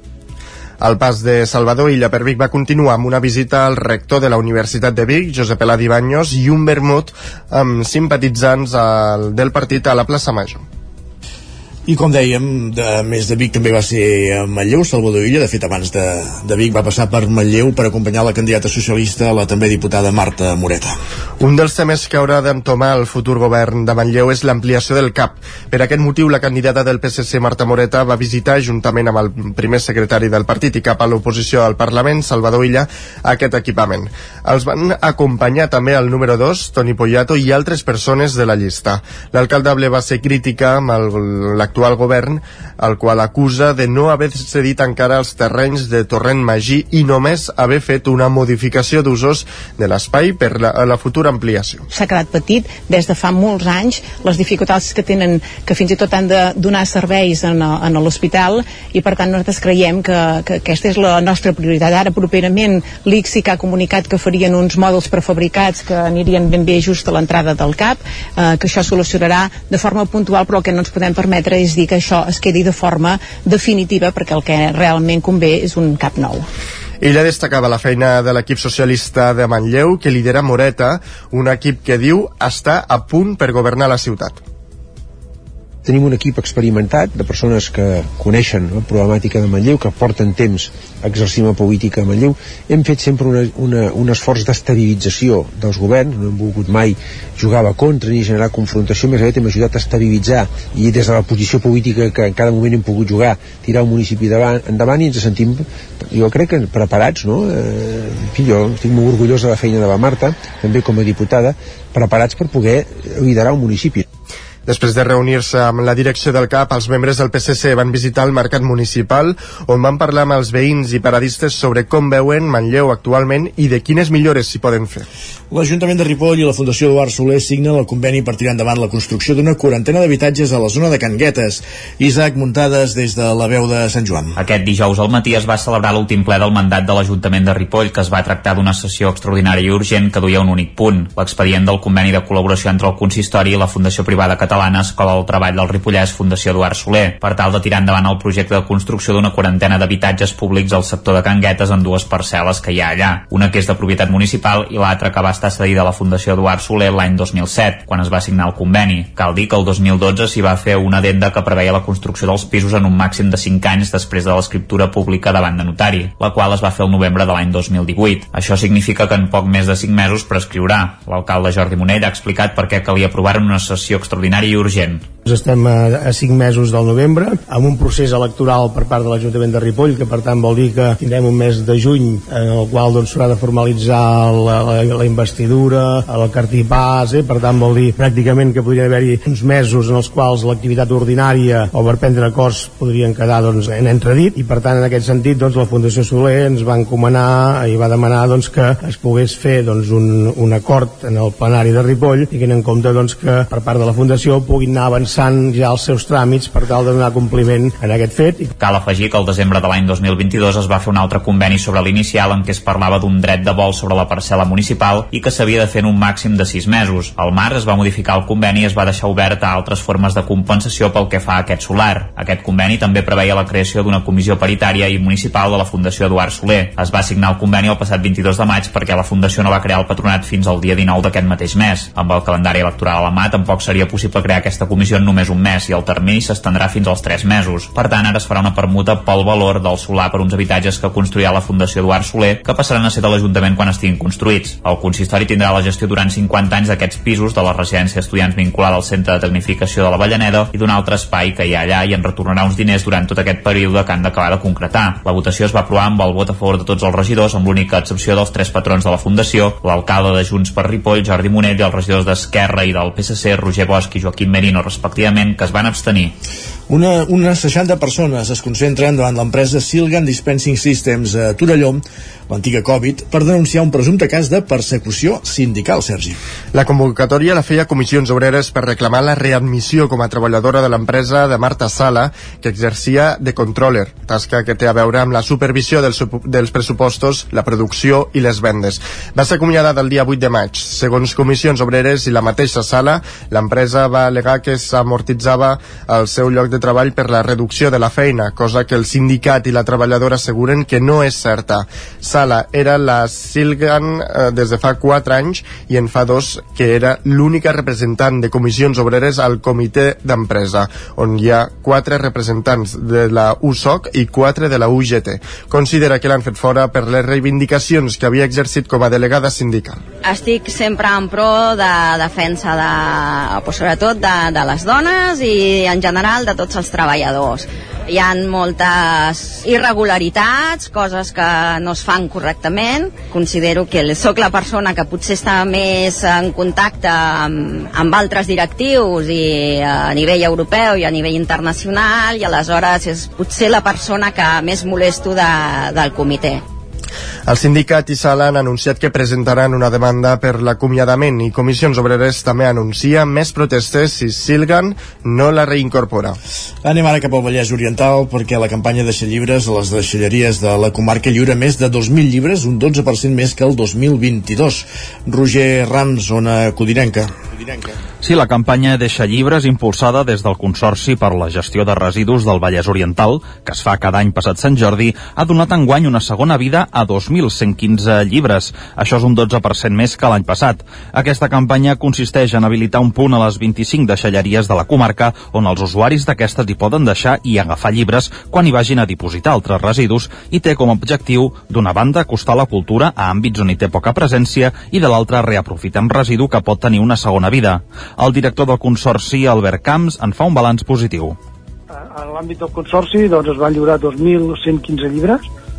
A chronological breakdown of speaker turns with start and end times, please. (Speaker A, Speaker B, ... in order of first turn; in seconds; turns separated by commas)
Speaker A: 0.8-10.6, Speaker B: 11.9-20.9, Speaker A: 21.4-51.9, Speaker C: 51.9-76.5, Speaker A: 77.0-84.4, Speaker D: 85.8-114.0, Speaker A: 114.7-125.1, Speaker B: 125.5-134.4, Speaker E: 134.4-175.1, Speaker F: 175.2-208.5, Speaker E: 208.6-266.1, Speaker B: 266.7-276.2, Speaker A: 276.5-319.8, Speaker G: 320.0-346.4, Speaker A: 347.3-356.2, Speaker B: 356.6-367.8, Speaker H: 368.0-401.2, Speaker I: 401.8-405.3